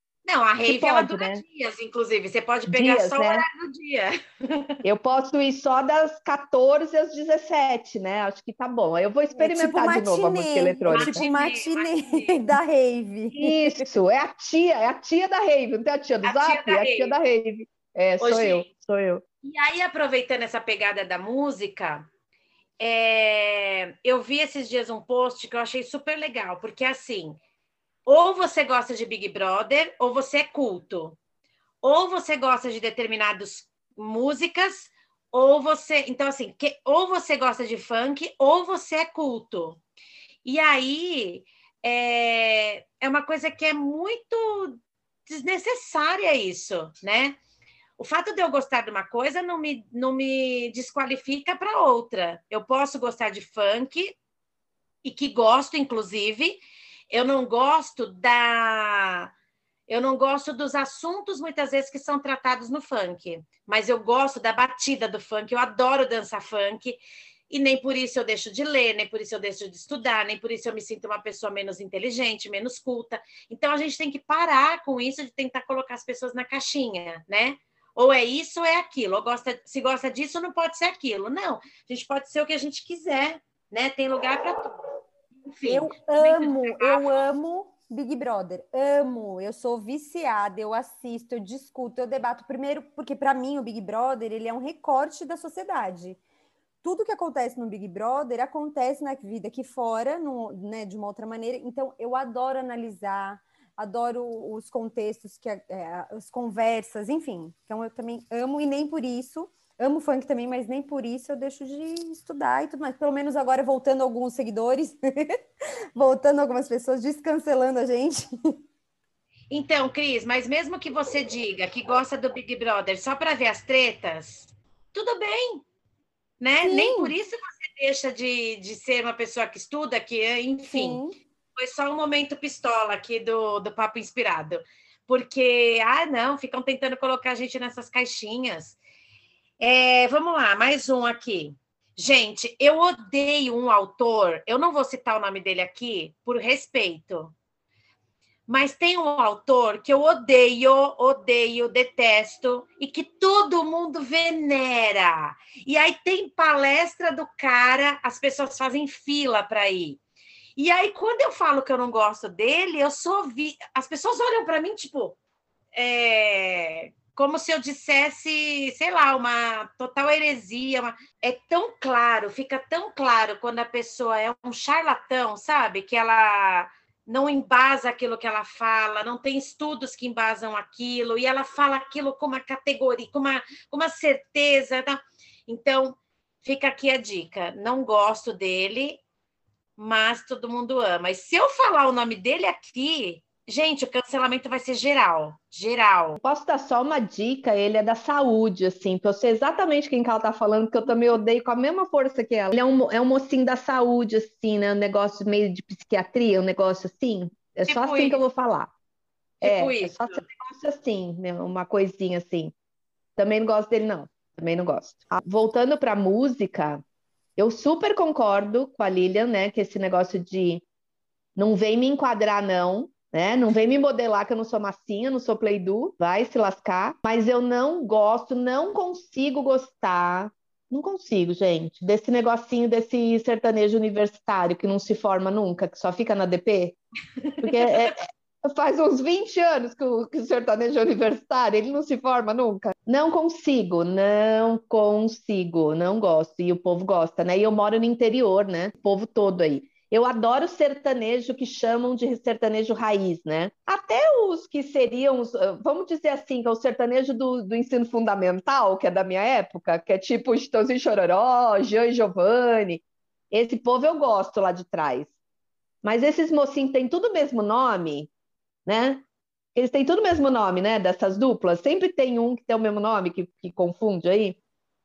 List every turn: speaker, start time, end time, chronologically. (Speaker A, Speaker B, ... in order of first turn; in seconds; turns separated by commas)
Speaker A: 0.2-4.7, Speaker B: 0.6-1.4, Speaker B: 2.7-3.4, Speaker B: 4.8-11.2, Speaker C: 9.3-13.8, Speaker A: 10.9-12.5, Speaker B: 13.3-19.2, Speaker A: 16.2-17.1, Speaker A: 18.2-18.7, Speaker A: 19.4-22.1, Speaker A: 22.8-27.4, Speaker A: 28.1-31.2, Speaker A: 31.8-39.8, Speaker A: 40.4-47.4, Speaker A: 48.0-54.2, Speaker A: 55.0-59.3, Speaker A: 59.9-84.8, Speaker A: 85.4-87.2, Speaker C: 85.7-96.2, Speaker C: 96.8-115.4, Speaker C: 115.9-118.3, Speaker A: 119.5-125.6, Speaker A: 126.4-131.0, Speaker C: 126.6-127.1, Speaker C: 130.7-131.1, Speaker A: 131.6-138.8, Speaker A: 139.6-147.3, Speaker A: 148.5-160.0, Speaker A: 160.6-165.2, Speaker A: 165.7-189.0, Speaker A: 189.8-196.2, Speaker B: 196.2-208.7, Speaker A: 207.7-208.2, Speaker A: 209.4-210.2, Speaker B: 209.4-212.5, Speaker B: 213.2-216.8, Speaker B: 217.4-220.6, Speaker B: 221.3-236.8, Speaker A: 237.3-237.9, Speaker B: 237.4-265.1, Speaker B: 265.8-268.1, Speaker B: 268.6-274.4